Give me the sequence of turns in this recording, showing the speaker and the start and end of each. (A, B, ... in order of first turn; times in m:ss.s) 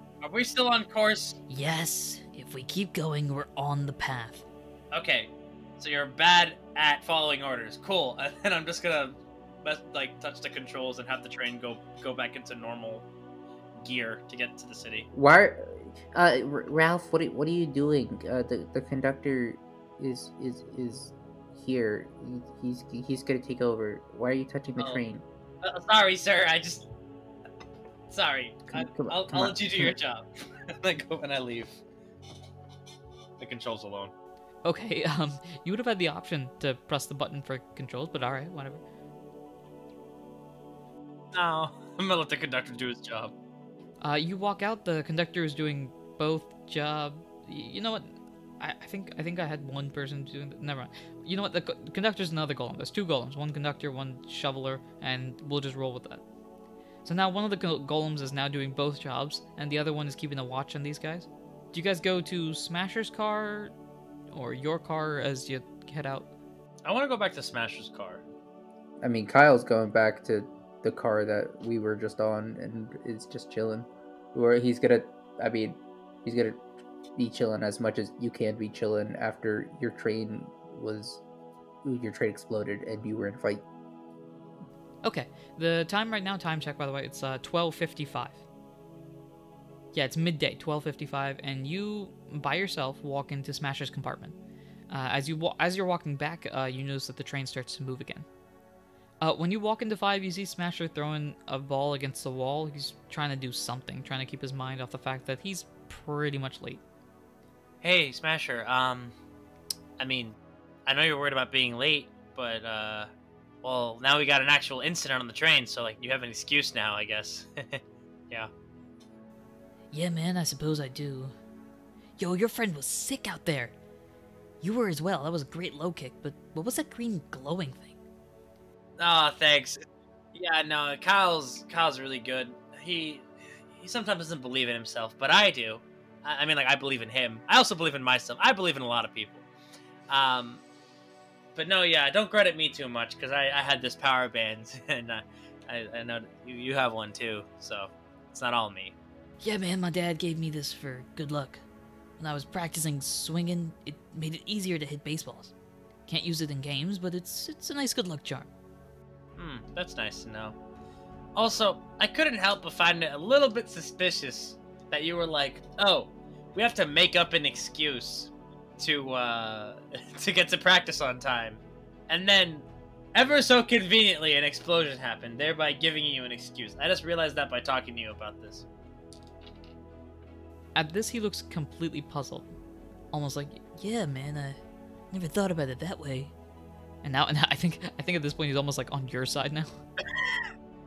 0:00.2-0:01.4 A
0:01.5-0:04.4 B
0:04.9-0:13.1 A
0:13.7-0:15.1 A
0:15.1-0:25.2 C
0:24.8-0:25.0 A
0:25.6-0:26.9 A
0:28.1-0:31.8 A
0:28.7-0:29.9 C
0:33.4-0:34.1 A
0:34.6-0:38.8 B
0:41.3-0:43.3 A
0:44.0-0:56.2 B
0:57.0-1:03.7 B
1:04.3-1:06.3 B
1:06.8-1:08.2 A
1:09.0-1:16.6 C
1:17.2-1:21.2 C
1:21.8-1:23.6 C
1:25.0-1:28.4 B
1:29.9-1:34.4 B
1:34.9-1:38.2 B
1:39.2-1:46.8 B
1:47.8-1:49.1 A
1:50.0-1:53.1 A
1:53.6-1:58.5 A
1:59.9-2:01.3 B
2:02.2-2:03.7 B
2:04.6-2:08.0 B
2:09.0-2:09.8 A
2:10.3-2:19.4 A
2:20.1-2:20.6 A
2:21.5-2:29.0 A
2:29.4-2:31.6 B
2:32.2-2:35.5 B
2:36.1-2:38.5 B
2:39.4-2:40.6 A
2:41.3-2:58.6 A
3:00.7-3:02.5 B
3:03.1-3:04.6 B
3:05.1-3:06.3 B
3:07.0-3:09.7 B
3:10.2-3:10.4 A